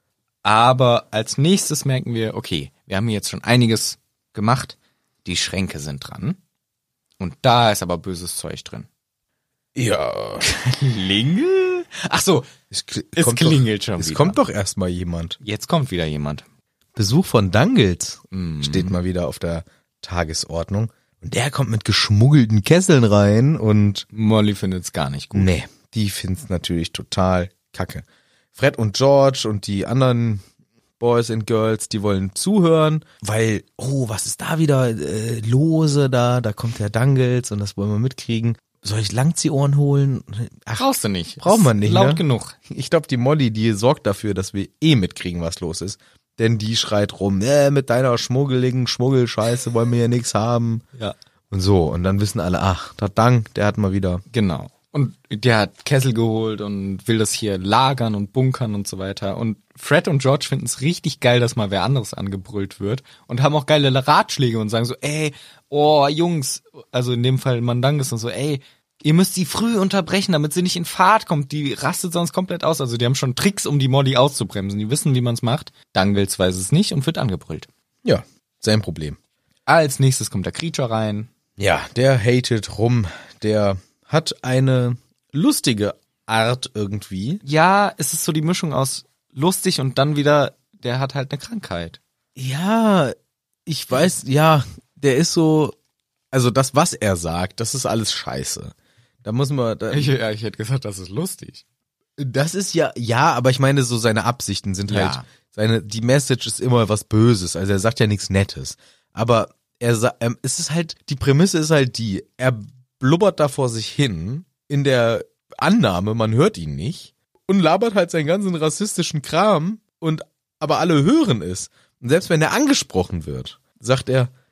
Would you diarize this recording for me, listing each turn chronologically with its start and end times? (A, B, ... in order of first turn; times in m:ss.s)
0:00.4-0:06.4 A
0:07.2-0:08.9 A
0:09.7-0:10.4 B
0:10.4-0:12.5 A
0:12.7-0:15.4 B
0:13.1-0:14.4 A
0:15.4-0:16.4 A
0:16.9-0:24.0 B
0:18.3-0:19.0 A
0:24.1-0:25.5 A
0:25.3-0:28.0 B
0:28.6-0:30.4 B
0:31.0-0:40.8 B
0:40.8-0:42.5 A
0:41.4-0:50.8 B
0:51.5-0:54.2 B
0:54.3-1:17.7 A
1:18.0-1:19.2 B
1:19.7-1:21.3 A
1:21.6-1:27.4 B
1:27.4-1:32.0 A
1:32.4-1:33.1 B
1:33.6-1:35.7 B
1:36.3-1:40.1 B
1:39.9-1:41.6 A
1:42.2-2:04.3 B
1:44.9-1:45.2 A